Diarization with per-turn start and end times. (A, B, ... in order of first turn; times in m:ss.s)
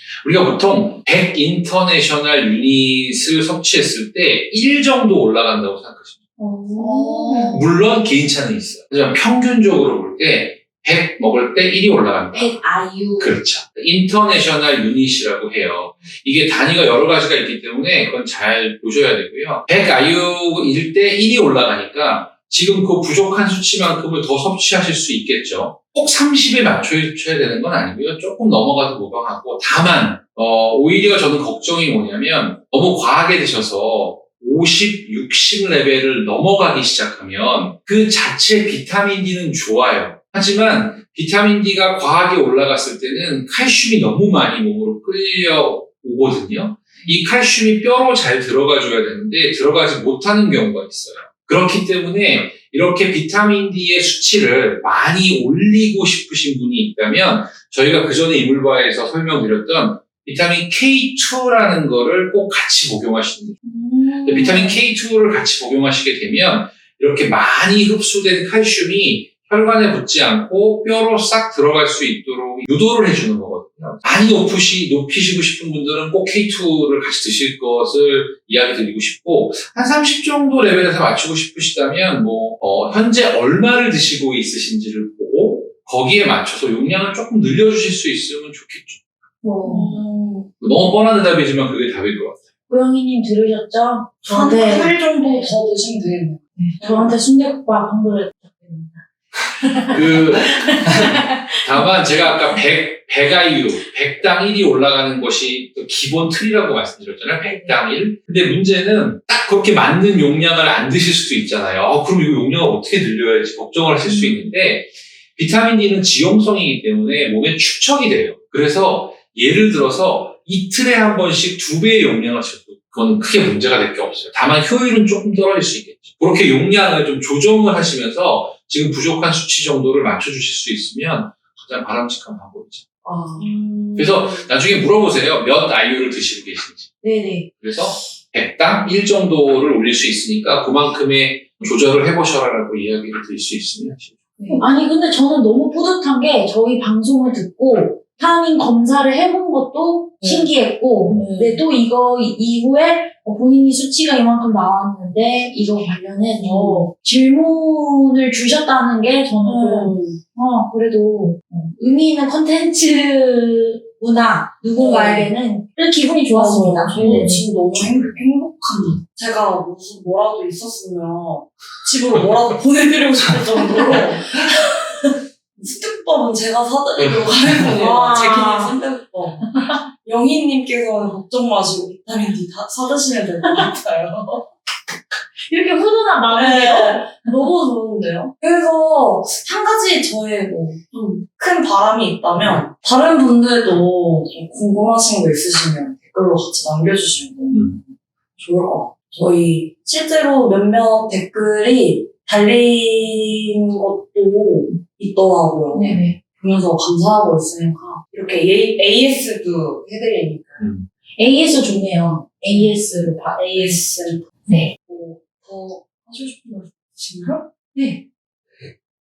0:00.2-0:06.2 A
0:06.4-0:07.6 B
0:06.8-0:07.6 C
0:07.5-0:12.6 A
0:12.3-0:13.4 B
0:13.2-1:03.6 A
1:03.7-1:04.8 B
1:04.2-1:29.0 A
1:29.4-1:30.0 B
1:29.6-1:30.5 C
1:30.6-1:32.4 A
1:32.7-1:35.6 B
1:34.2-1:37.1 C
1:36.6-1:41.6 B
1:39.9-1:40.6 A
1:41.5-2:12.9 A
1:47.4-1:47.8 B
1:54.0-1:54.5 B
2:13.0-2:14.5 C
2:14.0-2:16.9 A
2:17.0-2:17.5 B
2:17.6-2:24.4 A
2:24.5-2:47.4 B
2:30.2-2:30.5 C
2:31.2-2:31.6 C
2:36.4-2:36.9 C
2:39.4-2:40.2 C
2:44.8-2:45.3 C
2:46.3-3:04.5 C
2:46.9-2:48.3 A
2:57.8-2:58.8 B
3:05.5-3:07.1 B
3:06.3-3:17.7 C
3:18.4-3:30.7 C
3:25.7-3:26.2 B
3:30.6-3:30.9 A
3:31.2-3:33.8 B
3:33.4-3:37.4 C
3:37.7-3:38.0 B